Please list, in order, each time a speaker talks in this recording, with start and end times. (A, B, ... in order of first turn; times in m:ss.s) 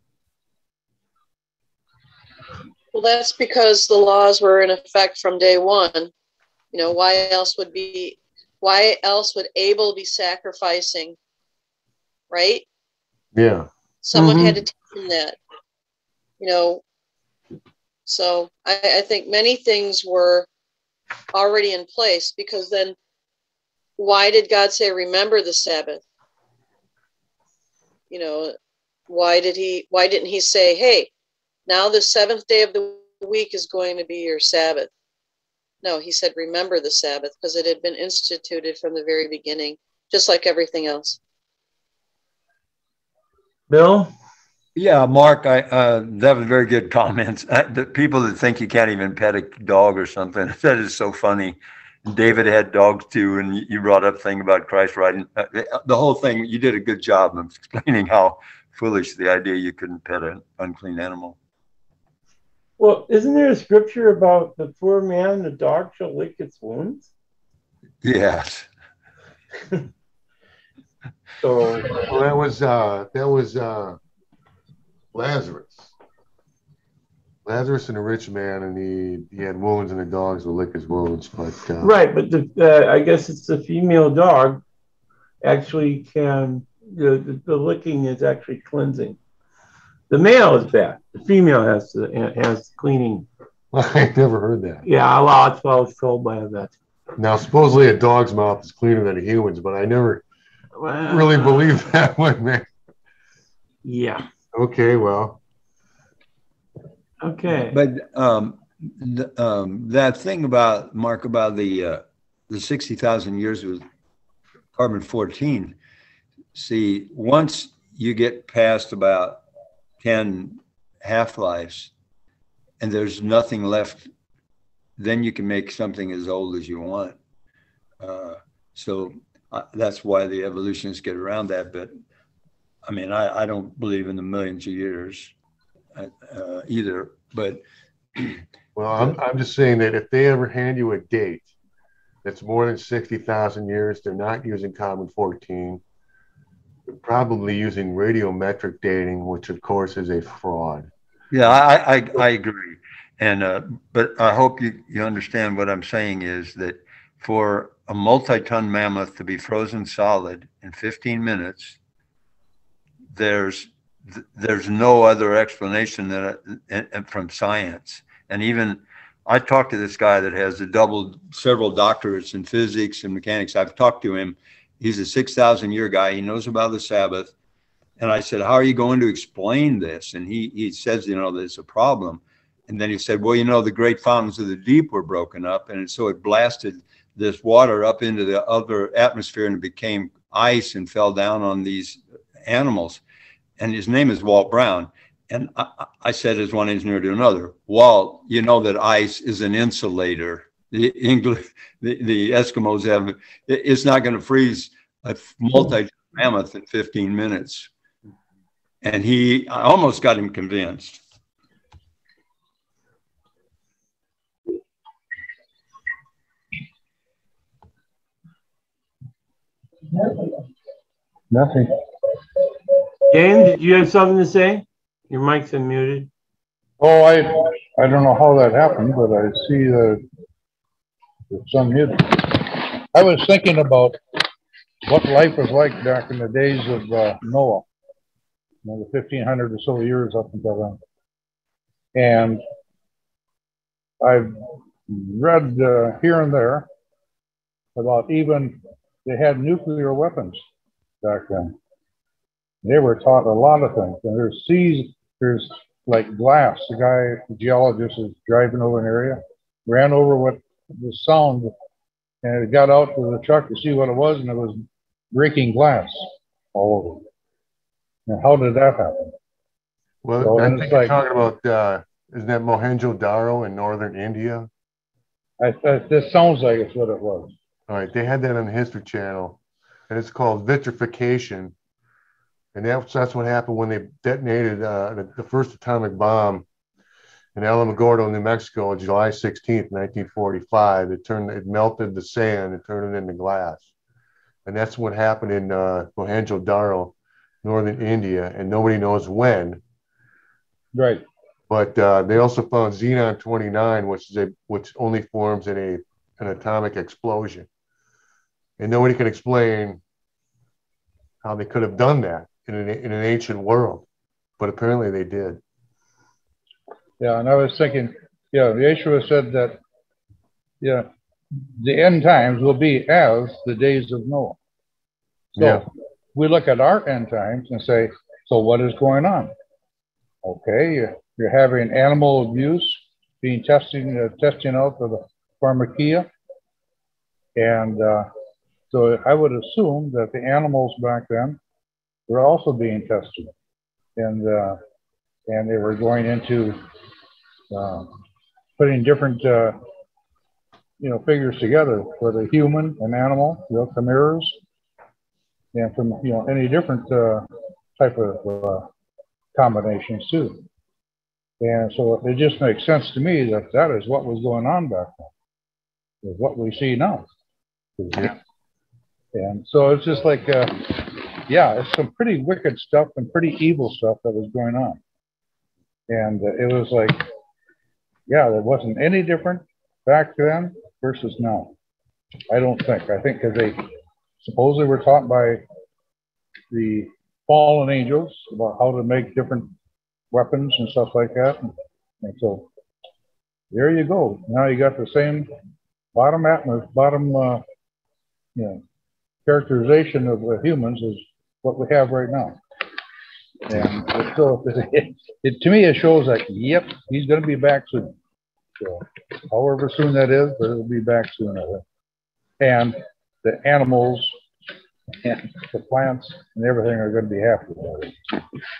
0:02.9-0:06.1 A
0:06.7-0:11.2 A
0:12.3-0:12.6 A
0:13.3-0:13.7 B
0:14.0-0:15.4 A
0:14.1-0:14.6 C
0:16.4-0:16.8 A
0:18.0-0:20.5 A
0:21.3-0:23.0 A
0:24.0-0:26.0 A
0:28.1-0:28.5 A
0:29.1-0:31.1 A
0:31.7-0:34.9 A
0:35.8-0:41.2 A
0:43.7-0:44.1 C
0:44.8-1:01.4 D
1:02.8-1:07.1 C
1:08.0-1:08.7 D
1:11.4-1:12.1 C
1:12.0-1:14.0 B
1:15.1-1:15.9 B
1:17.4-1:21.9 B
1:21.8-1:24.6 C
1:25.4-1:29.2 C
1:30.1-1:33.3 C
1:33.7-1:34.8 B
1:34.8-1:36.7 C
1:37.2-1:40.2 B
1:40.8-1:41.7 C
1:41.0-1:42.7 B
1:43.8-1:44.2 C
1:44.5-1:45.4 B
1:47.2-1:47.8 C
1:47.6-1:53.8 D
1:54.7-1:55.7 D
1:56.5-1:59.4 D
2:00.0-2:01.9 D
2:02.8-2:04.1 D
2:05.0-2:07.1 D
2:08.0-2:11.9 D
2:12.9-2:15.3 D
2:15.9-2:17.6 D
2:18.1-2:18.4 D
2:18.8-2:21.5 B
2:22.2-2:25.8 B
2:26.9-2:30.9 B
2:31.3-2:41.8 D
2:43.1-2:57.3 D
2:58.0-3:13.0 D
3:13.6-3:27.7 D
3:28.8-3:31.0 D
3:40.0-3:40.4 E
3:41.3-3:41.8 E
3:43.1-3:46.1 C
3:46.8-3:50.0 E
3:51.3-3:54.2 E
3:54.8-3:57.7 E
3:58.6-4:00.8 E
4:01.9-4:02.4 E
4:04.0-4:06.7 E
4:07.8-4:10.4 E
4:11.0-4:11.6 E
4:12.6-4:21.5 E
4:22.2-4:27.0 E
4:28.1-4:29.1 E
4:30.0-4:34.5 B
4:30.2-4:31.0 E
4:35.4-4:37.3 E
4:37.7-4:41.5 B
4:42.5-4:46.4 B
4:47.4-4:53.7 B
4:54.4-4:59.6 B
5:00.7-5:01.0 E
5:01.5-5:07.5 B
5:08.6-5:09.8 B
5:11.2-5:13.8 B
5:14.4-5:15.4 B
5:17.0-5:19.6 E
5:20.6-5:20.9 E
5:21.6-5:24.4 E
5:25.4-5:25.6 B
5:25.4-5:29.3 E
5:30.2-5:36.1 E
5:37.4-5:38.1 E
5:38.7-5:41.4 E
5:42.1-5:43.3 E
5:44.0-5:44.6 E
5:45.3-5:46.6 E
5:47.5-5:48.0 E
5:48.6-5:49.6 E
5:50.8-5:54.4 E
5:55.5-5:58.7 E
5:59.3-6:00.4 E
6:01.4-6:05.1 E
6:06.0-6:07.1 E
6:07.8-6:08.2 E
6:09.1-6:14.8 E
6:15.9-6:17.1 E
6:18.1-6:21.5 E
6:22.3-6:23.7 E
6:24.2-6:25.4 E
6:26.5-6:29.5 E
6:30.1-6:32.5 E
6:33.5-6:35.3 E
6:35.9-6:37.4 E
6:38.4-6:38.6 E
6:39.2-6:42.4 E
6:43.4-6:48.0 E
6:48.6-6:51.6 E
6:52.4-6:54.1 E
6:55.0-6:58.0 E